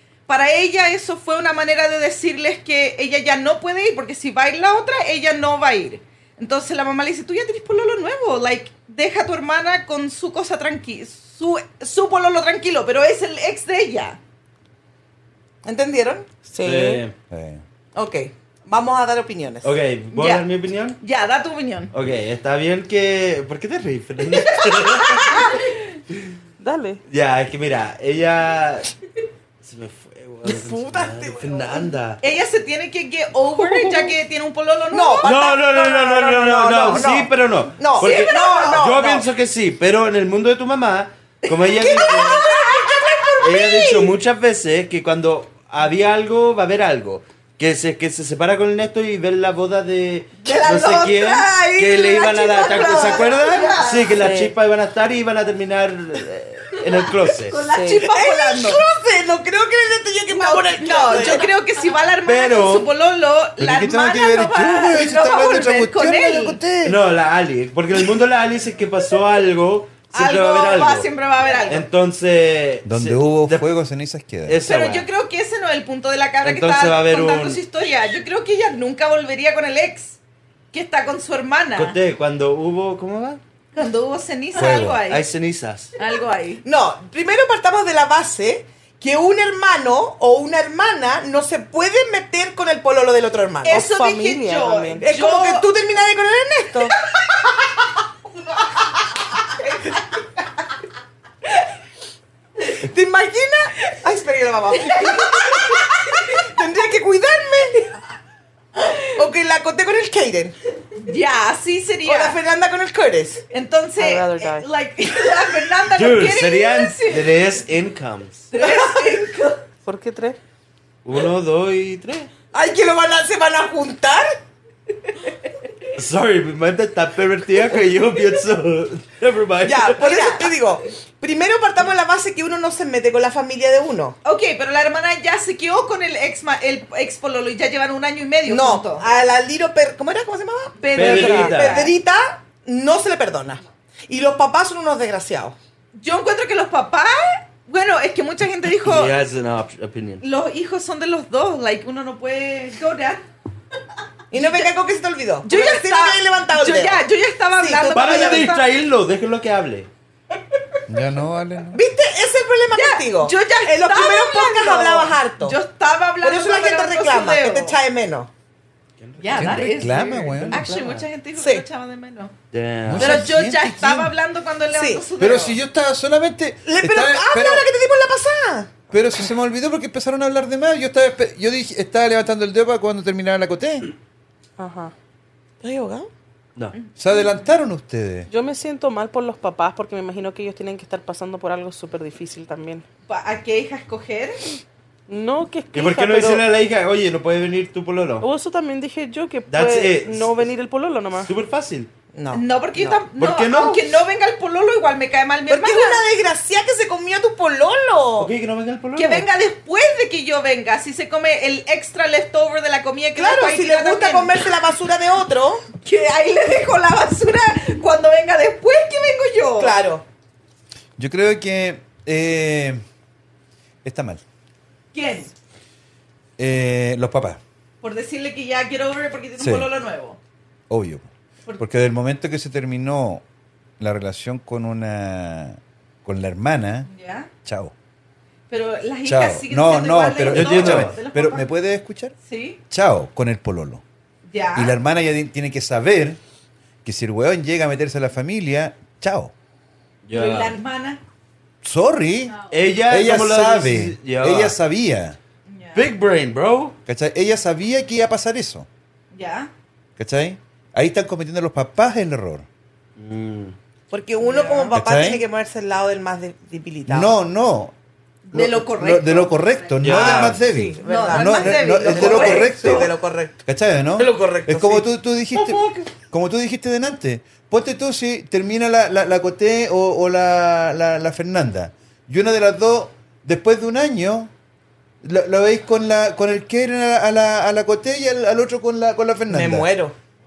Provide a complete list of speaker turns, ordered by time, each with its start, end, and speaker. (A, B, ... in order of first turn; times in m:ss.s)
0:00.3-0:14.2 A
0:15.6-0:16.3 B
0:16.5-0:17.0 C
0:16.6-0:17.1 D
0:17.3-0:17.6 E
0:17.9-0:19.8 B
0:19.6-0:21.0 D
0:20.1-0:20.4 A
0:21.0-0:21.9 A
0:21.9-0:25.4 D
0:24.9-0:25.8 A
0:26.6-0:27.0 C
0:27.1-0:28.9 D
0:29.6-0:32.2 D
0:30.4-0:31.9 B
0:32.2-0:35.5 A
0:33.6-0:34.1 C
0:34.9-0:39.2 B
0:35.2-0:42.5 D
0:38.0-0:38.9 A
0:41.4-0:43.4 A
0:41.7-0:44.1 B
0:43.4-0:57.6 D
0:50.4-0:54.2 A
0:52.7-0:53.8 B
0:54.1-0:54.5 C
0:56.8-0:58.8 A
0:57.6-0:58.0 C
0:57.9-1:01.5 B
1:00.3-1:06.6 A
1:01.0-1:01.4 D
1:02.2-1:02.9 D
1:03.6-1:07.0 E
1:06.8-1:11.1 D
1:10.1-1:11.9 A
1:11.6-1:13.7 D
1:12.8-1:14.6 E
1:14.4-1:15.1 D
1:14.6-1:20.2 A
1:16.4-1:17.6 D
1:20.7-1:22.0 A
1:21.8-1:23.4 D
1:23.7-1:25.3 A
1:24.5-1:25.0 E
1:25.1-1:25.9 D
1:26.0-1:26.6 A
1:26.6-1:33.9 B
1:33.6-1:35.7 A
1:33.7-1:35.0 C
1:35.0-1:37.0 B
1:42.7-1:47.9 B
1:44.8-1:45.8 A
1:49.1-1:50.6 B
1:51.0-1:52.4 A
1:52.0-1:53.4 B
1:53.5-1:57.4 A
1:54.0-1:54.7 C
1:55.9-1:58.5 D
1:58.5-1:59.6 A
1:58.6-1:59.2 B
1:59.8-2:00.4 C
2:01.0-2:02.3 D
2:02.5-2:04.4 B
2:06.0-2:10.3 D
2:09.6-2:14.2 B
2:10.0-2:10.4 A
2:14.2-2:19.0 A
2:18.4-2:25.6 B
2:20.8-2:21.9 A
2:21.0-2:21.8 D
2:21.0-2:21.5 C
2:25.9-2:29.1 A
2:28.7-2:30.2 D
2:30.2-2:33.2 A
2:34.3-2:37.0 B
2:34.3-2:34.7 A
2:35.4-2:38.7 A
2:37.6-2:38.5 B
2:37.9-2:39.9 D
2:40.9-2:41.8 E
2:41.7-2:45.6 B
2:42.7-2:47.8 A
2:46.2-2:48.3 B
2:49.0-2:51.0 D
2:49.2-2:52.3 A
2:49.3-2:50.6 E
2:51.4-2:51.6 B
2:52.5-2:53.2 D
2:52.8-2:54.1 E
2:53.0-2:55.6 A
2:54.7-2:55.0 B
2:55.2-2:57.7 E
2:56.6-2:58.8 B
2:58.9-3:03.9 E
3:04.6-3:04.9 C
3:05.6-3:06.1 B
3:06.7-3:07.2 A
3:07.0-3:08.3 E
3:08.3-3:12.8 C
3:13.1-3:14.4 A
3:15.1-3:16.4 C
3:15.7-3:18.3 D
3:18.2-3:21.3 C
3:19.5-3:20.4 D
3:21.2-3:21.9 D
3:22.1-3:23.0 B
3:22.3-3:26.0 A
3:23.2-3:23.9 D
3:25.5-3:28.3 B
3:28.2-3:29.3 D
3:29.0-3:34.4 A
3:33.2-3:35.6 B
3:35.8-3:39.8 A
3:39.6-3:40.0 B
3:41.0-3:42.8 E
3:43.8-3:44.2 E
3:44.9-3:45.3 A
3:46.4-3:47.4 E
3:47.8-3:50.2 A
3:49.4-3:49.7 E
3:50.7-3:53.2 E
3:53.8-3:56.9 E
3:56.9-3:57.3 A
3:57.4-3:57.7 E
3:58.5-4:01.5 A
3:59.0-4:02.1 E
4:00.3-4:01.0 D
4:02.2-4:02.6 A
4:02.7-4:03.8 E
4:04.3-4:04.8 A
4:04.6-4:06.2 E
4:06.8-4:09.3 E
4:10.0-4:10.6 D
4:10.1-4:11.0 A
4:11.6-4:12.3 E
4:12.5-4:14.6 D
4:12.9-4:15.2 E
4:15.5-4:15.9 A
4:15.7-4:16.8 D
4:16.8-4:18.7 E
4:19.1-4:19.5 A
4:20.0-4:22.4 E
4:23.0-4:23.6 D
4:23.9-4:27.1 B
4:24.2-4:24.8 A
4:24.7-4:25.2 E
4:26.9-4:27.7 E
4:28.2-4:29.8 A
4:28.3-4:32.9 E
4:29.8-4:30.4 D
4:29.8-4:33.3 B
4:30.8-4:32.9 A
4:33.4-4:44.3 E
4:34.0-4:34.8 B
4:34.2-4:34.6 D
4:35.4-4:35.6 D
4:45.0-4:49.7 E
4:49.3-4:49.9 B